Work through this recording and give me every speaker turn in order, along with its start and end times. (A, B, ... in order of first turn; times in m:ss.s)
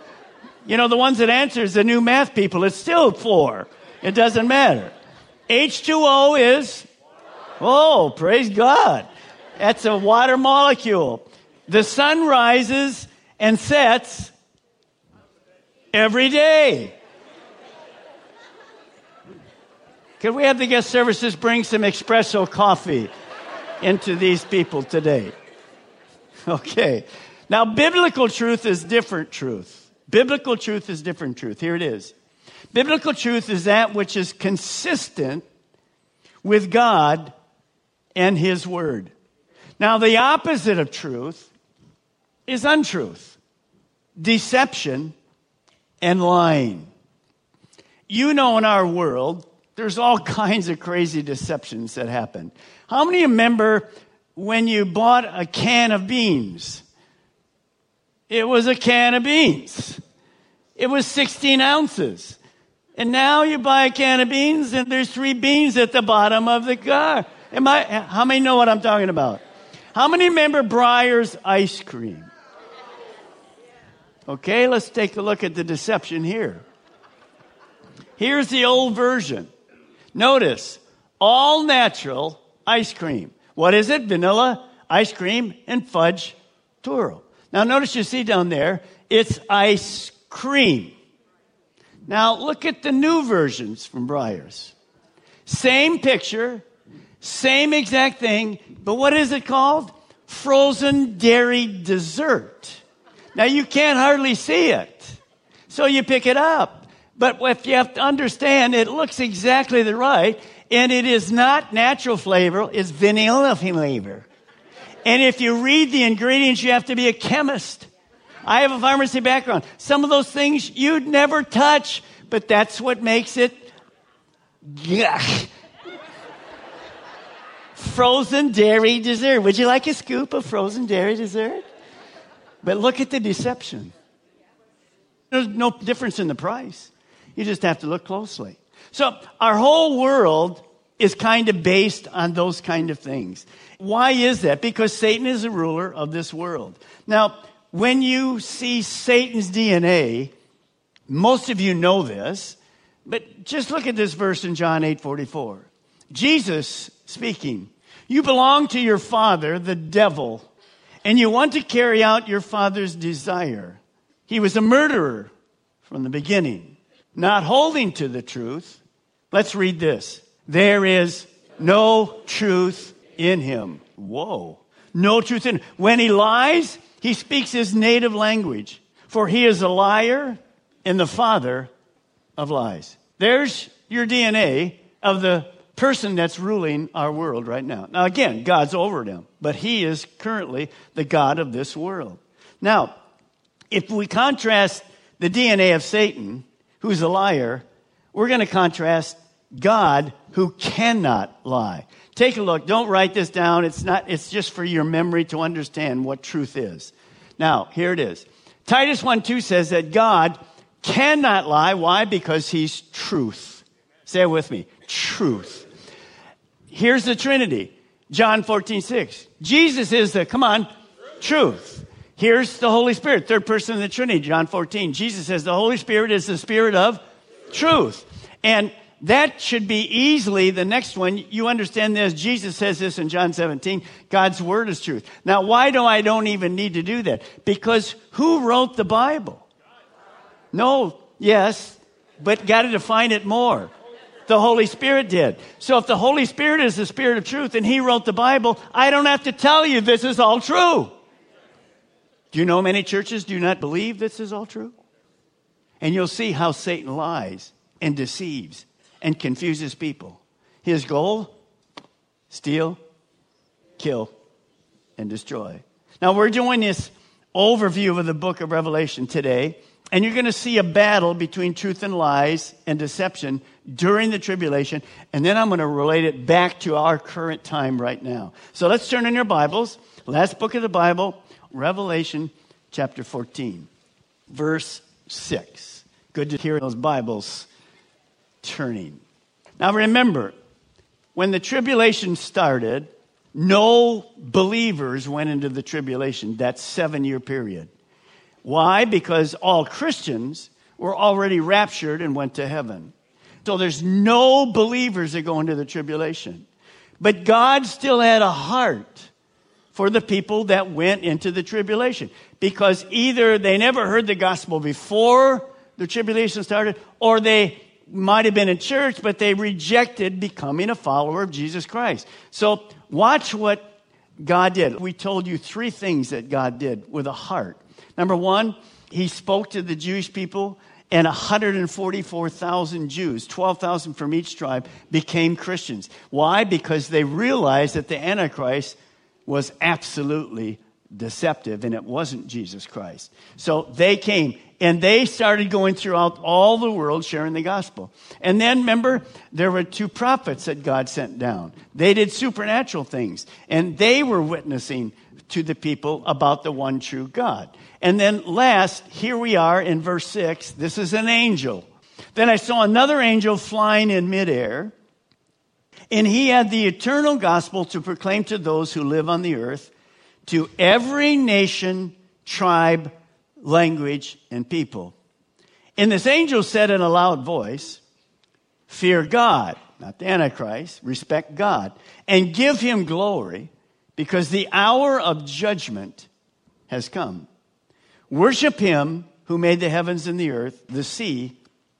0:00.6-0:04.9 A
0:05.5-0:06.9 A
0:07.6-0:14.3 A
0:15.9-0:17.0 A
0:20.2-0:23.1 A
0:23.8-0:25.3 A
0:26.5-0:32.1 A
0:32.7-0:35.4 A
0:36.4-0:37.3 A
0:38.2-0:39.1 A
0:39.8-0:41.5 A
0:42.5-0:43.4 A
0:44.2-0:45.1 A
0:46.0-0:46.9 A
0:48.1-0:56.8 A
0:58.3-1:00.0 A
1:00.8-1:02.4 A
1:03.0-1:09.4 A
1:09.9-1:12.3 A
1:14.3-1:16.6 A
1:18.2-1:19.5 A
1:20.1-1:30.9 A
1:32.1-1:34.7 A
1:35.4-1:36.6 A
1:37.2-1:42.8 A
1:43.3-1:45.2 A
1:45.7-1:54.2 A
1:55.0-1:57.9 A
1:58.4-2:03.7 A
2:04.6-2:05.5 A
2:07.8-2:11.6 A
2:12.6-2:13.9 A
2:15.3-2:30.3 A
2:31.1-2:40.5 A
2:41.0-2:45.3 A
2:45.8-2:48.8 A
2:49.3-3:01.7 A
3:02.4-3:12.9 A
3:13.7-3:35.7 A
3:36.7-3:40.7 A
3:41.2-3:47.0 A
3:47.5-3:59.4 A
4:00.5-4:03.7 A
4:04.3-4:10.9 A
4:12.3-4:14.7 A
4:15.8-4:21.3 A
4:22.3-4:22.8 A
4:23.8-4:24.1 A
4:25.0-4:43.7 A
4:44.3-4:47.5 A
4:48.4-4:49.0 A
4:49.6-4:50.3 A
4:51.1-4:57.7 A
4:58.4-5:02.9 A
5:03.4-5:06.4 A
5:07.0-5:09.1 A
5:09.7-6:04.7 A
6:05.9-6:09.7 A
6:10.2-6:14.9 A
6:15.8-6:17.8 A
6:18.7-6:26.1 A
6:26.7-6:27.3 A
6:28.1-6:31.4 A